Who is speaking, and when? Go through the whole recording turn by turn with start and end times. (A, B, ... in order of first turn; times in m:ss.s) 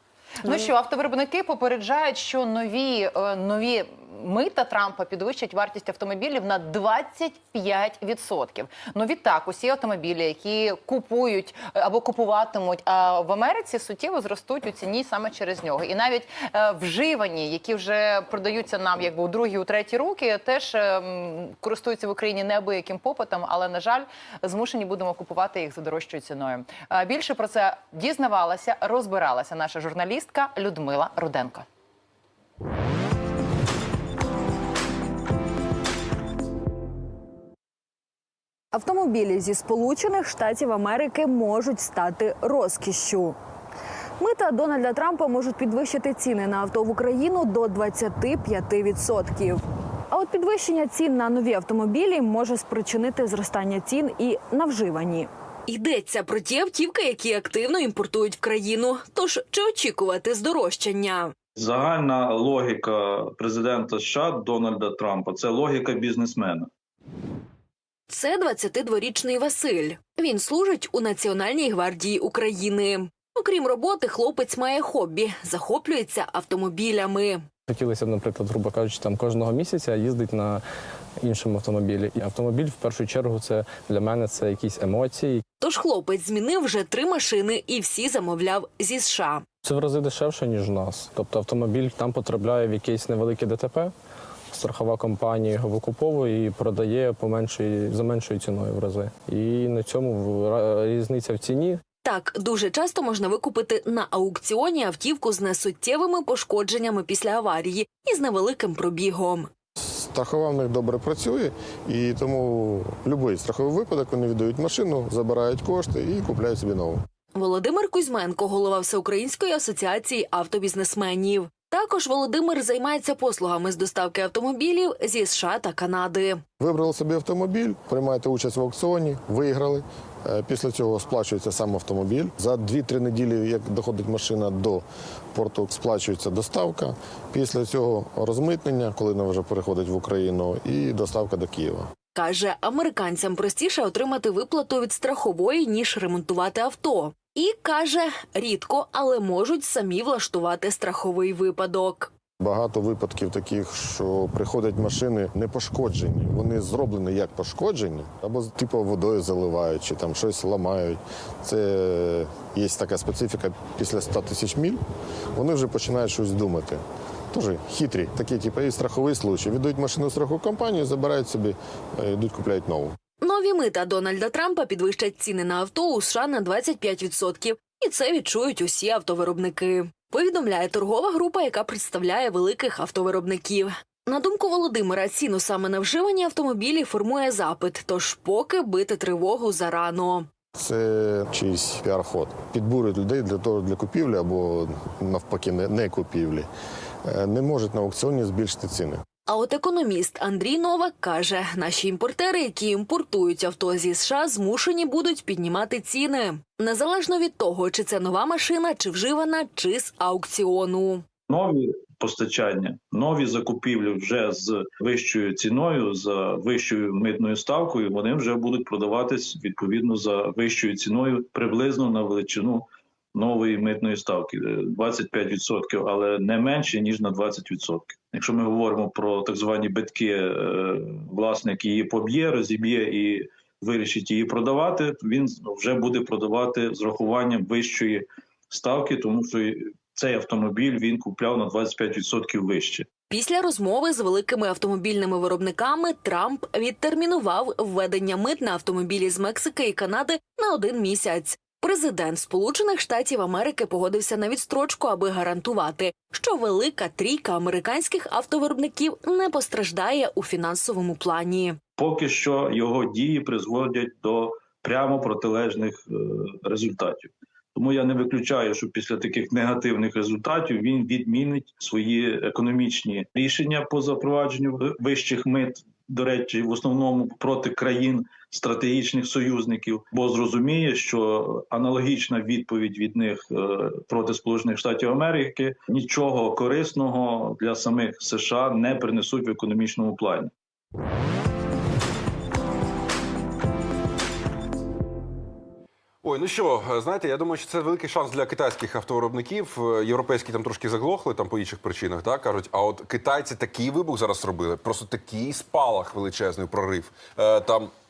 0:00.4-0:31.7 A
0:38.7-0:43.3 B
0:44.2-0:49.6 B
0:50.1-0:55.3 B
0:55.7-1:01.3 C
1:01.6-1:06.7 D
1:08.1-1:17.4 C
1:17.7-1:20.6 E
1:21.2-1:25.4 E
1:25.6-1:29.4 C
1:29.6-1:33.9 E
1:34.5-1:41.8 E
1:42.0-1:49.5 C
1:49.8-1:57.0 F
1:57.3-2:06.4 C
2:06.6-2:14.8 F
2:15.3-2:21.9 F
2:22.2-2:32.1 C
2:32.4-2:44.8 F
2:45.3-2:46.8 F
2:47.3-2:52.9 F
2:53.2-3:10.3 C
3:10.5-3:16.5 F
3:17.1-3:19.0 F
3:19.3-3:31.0 C
3:31.3-4:02.9 D
4:03.1-4:21.6 C
4:21.8-4:50.3 D
4:56.0-5:07.7 G